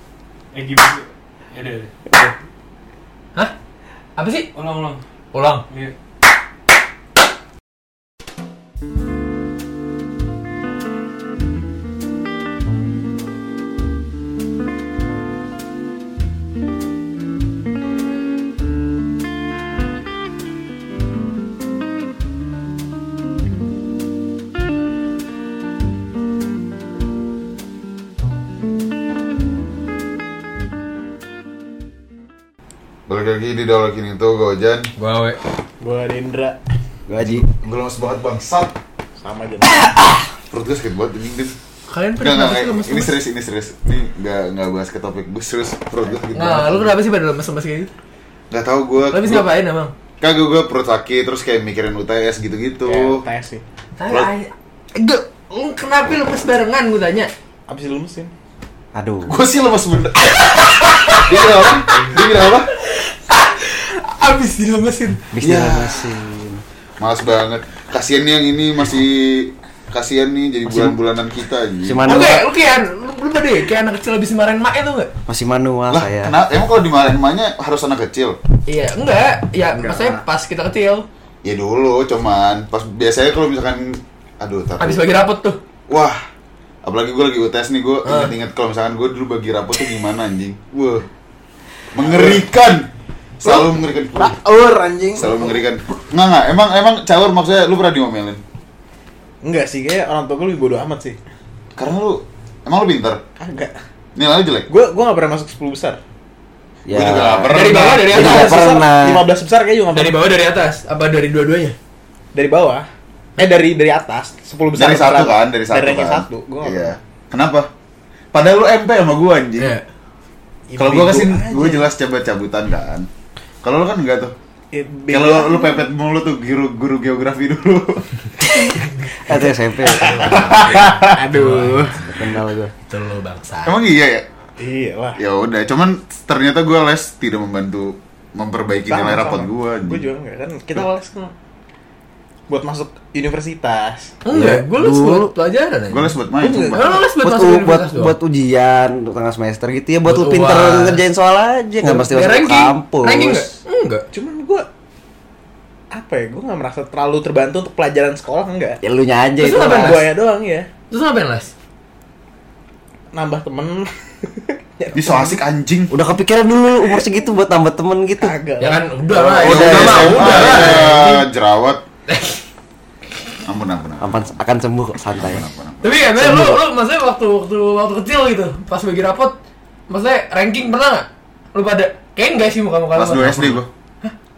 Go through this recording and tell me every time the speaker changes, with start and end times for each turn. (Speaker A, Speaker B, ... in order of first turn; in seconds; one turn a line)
Speaker A: 0.5-2.1
Speaker B: 4.2-4.5
Speaker A: 4.5-5.0
Speaker B: 5.3-5.6
Speaker A: 5.7-5.9
Speaker C: 33.1-34.9
Speaker B: 35.0-35.4
Speaker D: 35.8-36.6
Speaker E: 37.1-37.5
Speaker C: 37.3-38.7
Speaker D: 39.2-39.8
Speaker C: 40.5-41.5
Speaker B: 41.9-43.1
Speaker C: 42.2-46.9
Speaker B: 46.3-47.9
Speaker C: 48.5-49.5
Speaker B: 49.1-49.9
Speaker C: 50.2-53.2
Speaker D: 52.8-53.6
Speaker B: 54.0-57.3
Speaker D: 57.7-58.3
Speaker E: 58.9-59.4
Speaker C: 59.2-60.5
Speaker B: 60.6-61.3
Speaker C: 61.1-62.7
Speaker B: 62.8-65.2
Speaker E: 65.3-66.6
Speaker C: 65.4-66.1
Speaker C: 67.0-72.4
Speaker E: 70.7-71.0
Speaker E: 71.8-72.4
Speaker B: 72.0-75.1
Speaker E: 75.3-76.3
Speaker C: 75.9-78.4
Speaker B: 78.7-81.0
Speaker D: 79.8-80.2
Speaker C: 81.4-85.0
Speaker B: 84.8-85.6
Speaker C: 85.9-86.2
Speaker C: 86.8-91.1
Speaker B: 88.0-88.3
Speaker C: 91.9-92.9
Speaker D: 92.0-92.4
Speaker C: 93.4-94.3
Speaker D: 93.4-95.6
Speaker C: 95.2-98.4
Speaker D: 99.4-101.2
Speaker C: 101.8-103.2
Speaker D: 103.4-103.7
Speaker C: 104.2-104.7
Speaker D: 104.7-106.0
Speaker E: 106.8-109.2
Speaker C: 106.9-108.2
Speaker B: 107.5-108.6
Speaker D: 108.1-110.2
Speaker B: 109.9-111.8
Speaker D: 112.3-112.9
Speaker D: 113.4-117.0
Speaker C: 114.8-117.7
Speaker C: 118.3-119.8
Speaker B: 119.6-119.8
Speaker D: 120.7-121.9
Speaker C: 120.8-123.1
Speaker C: 123.6-124.3
Speaker D: 124.7-125.9
Speaker C: 125.1-128.7
Speaker E: 129.2-130.5
Speaker D: 129.9-132.0
Speaker B: 130.0-132.2
Speaker C: 130.3-131.1
Speaker E: 132.0-132.7
Speaker B: 132.8-133.8
Speaker C: 133.6-134.2
Speaker D: 134.6-135.2
Speaker C: 135.2-140.0
Speaker D: 138.8-141.3
Speaker D: 142.5-144.1
Speaker B: 144.2-148.2
Speaker E: 144.3-145.3
Speaker C: 145.9-147.0
Speaker D: 146.4-146.9
Speaker E: 147.2-153.5
Speaker B: 150.0-151.0
Speaker B: 151.8-154.0
Speaker D: 154.1-154.7
Speaker D: 155.9-158.8
Speaker E: 158.8-160.1
Speaker B: 159.4-160.0
Speaker D: 159.7-160.7
Speaker B: 160.9-161.5
Speaker D: 163.1-165.4
Speaker C: 164.9-165.9
Speaker E: 165.9-168.3
Speaker D: 168.2-169.7
Speaker B: 168.6-171.2
Speaker E: 169.2-170.8
Speaker C: 169.4-171.8
Speaker D: 170.4-170.7
Speaker B: 172.1-172.4
Speaker C: 173.4-174.3
Speaker E: 174.0-175.4
Speaker C: 175.2-175.9
Speaker B: 175.8-179.3
Speaker E: 176.1-176.6
Speaker B: 179.9-184.1
Speaker C: 182.9-183.7